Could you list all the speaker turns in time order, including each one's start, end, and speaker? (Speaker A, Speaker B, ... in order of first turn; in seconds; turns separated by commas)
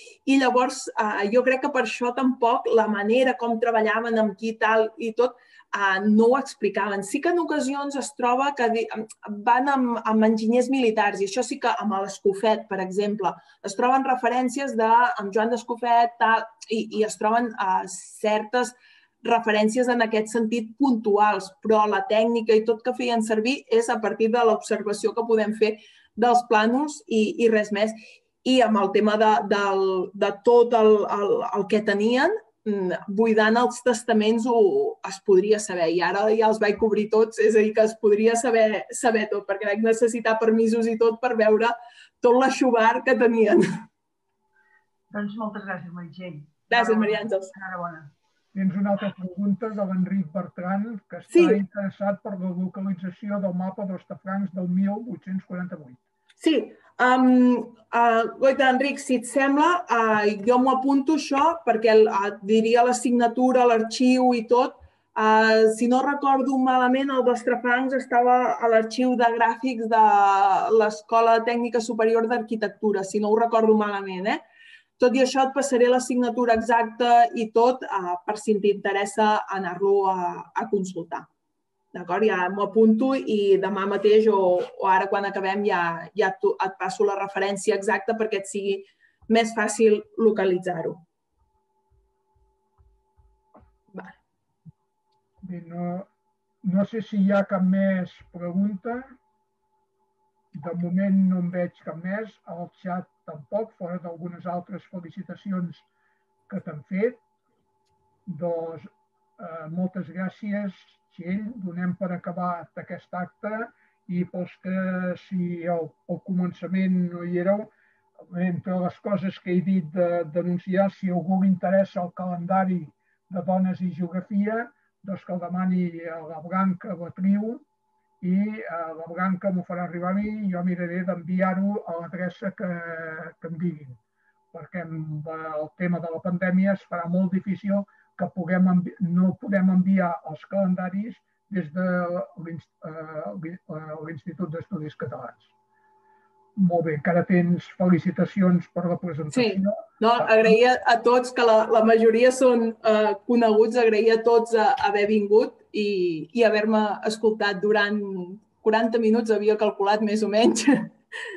Speaker A: 0.2-43.8, Speaker B: 45.1-48.1, Speaker A: 46.7-47.5, Speaker C: 48.5-56.0, Speaker A: 51.3-51.6, Speaker A: 56.4-74.4, Speaker A: 75.0-81.3, Speaker A: 81.9-91.0, Speaker C: 95.4-96.1, Speaker C: 96.6-99.1, Speaker C: 100.5-105.8, Speaker C: 106.5-107.2, Speaker C: 108.2-117.7, Speaker C: 118.3-127.6, Speaker C: 128.2-134.0, Speaker C: 134.5-145.5, Speaker C: 146.6-150.5, Speaker A: 149.3-160.9